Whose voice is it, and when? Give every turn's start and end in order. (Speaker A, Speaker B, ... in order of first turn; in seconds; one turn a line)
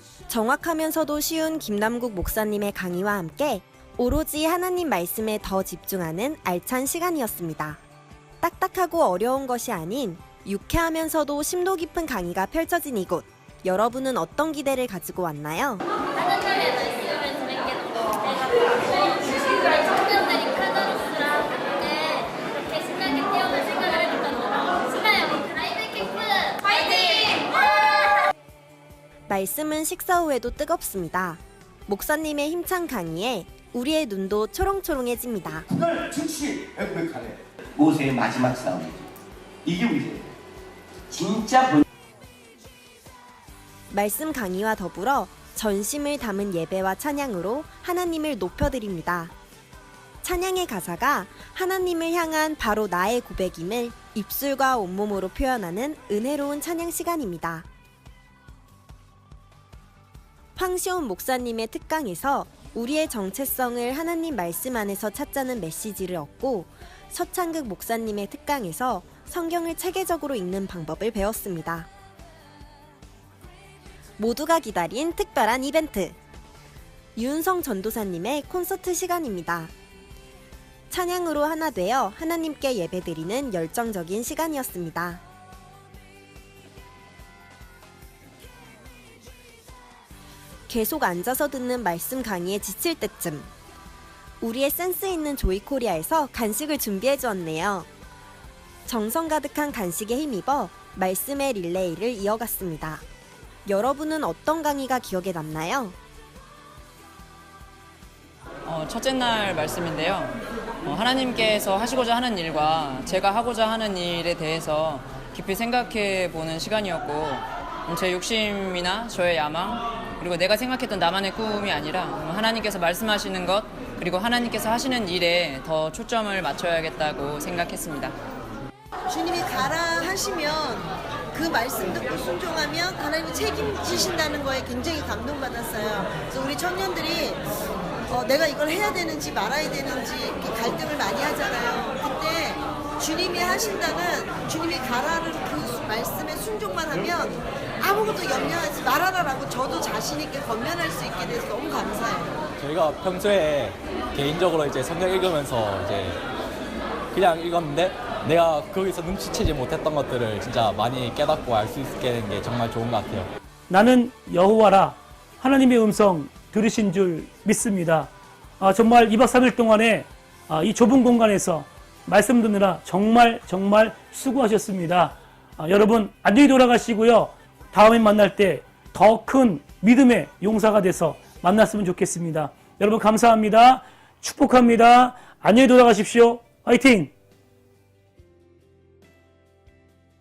Speaker A: 0.3-7.8
Speaker A: 8.4-15.8
Speaker B: 16.2-28.2
Speaker A: 29.3-35.7
Speaker C: 35.7-39.1
Speaker C: 39.6-40.3
Speaker C: 41.1-41.8
Speaker A: 43.9-49.3
Speaker A: 50.2-57.7
Speaker A: 60.5-71.9
Speaker A: 74.2-76.2
Speaker A: 77.2-79.7
Speaker A: 80.9-85.2
Speaker A: 90.7-93.5
Speaker A: 94.4-97.9
Speaker A: 98.8-103.0
Speaker A: 103.6-106.0
Speaker D: 108.7-128.2
Speaker E: 129.1-137.5
Speaker E: 138.1-152.4
Speaker F: 152.6-156.2
Speaker F: 157.1-163.3
Speaker G: 163.7-187.1